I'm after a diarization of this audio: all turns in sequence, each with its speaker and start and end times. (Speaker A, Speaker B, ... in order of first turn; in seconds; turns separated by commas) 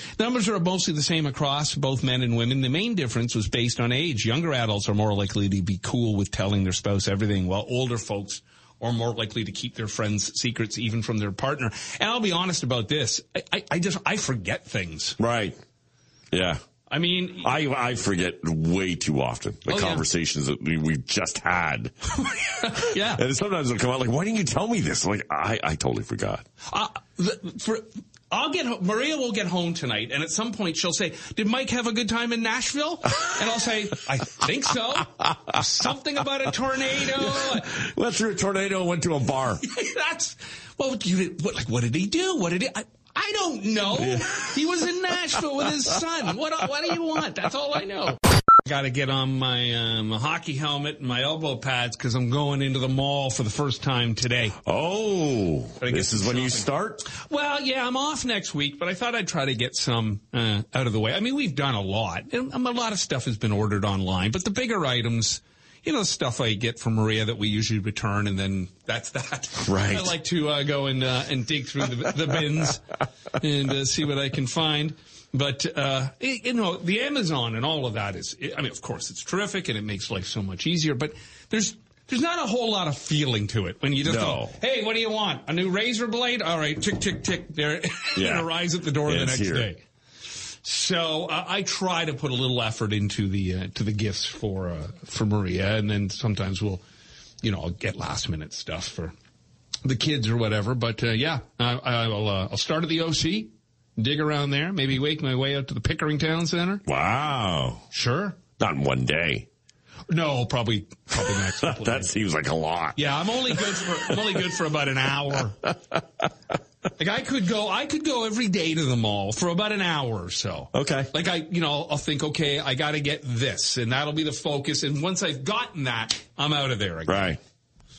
Speaker A: 0.2-15.2, Speaker B: 15.2-15.6, Speaker B: 16.3-16.6, Speaker A: 16.9-17.5, Speaker B: 17.4-26.4, Speaker A: 19.7-20.0, Speaker A: 22.2-23.2, Speaker A: 26.6-37.8, Speaker B: 35.2-35.6, Speaker B: 37.0-39.6, Speaker A: 39.6-54.6, Speaker B: 44.0-46.0, Speaker B: 54.6-57.0, Speaker A: 55.8-89.8, Speaker B: 69.6-70.1, Speaker B: 84.0-84.5, Speaker B: 88.2-88.5, Speaker B: 89.0-89.7, Speaker A: 90.6-96.8, Speaker A: 97.4-99.1, Speaker A: 99.8-106.8, Speaker B: 106.8-107.8, Speaker A: 107.9-108.4, Speaker B: 108.6-109.5, Speaker A: 110.1-112.1, Speaker B: 111.2-114.3, Speaker A: 113.0-115.6, Speaker A: 117.0-127.4, Speaker B: 120.7-121.1, Speaker B: 127.1-127.4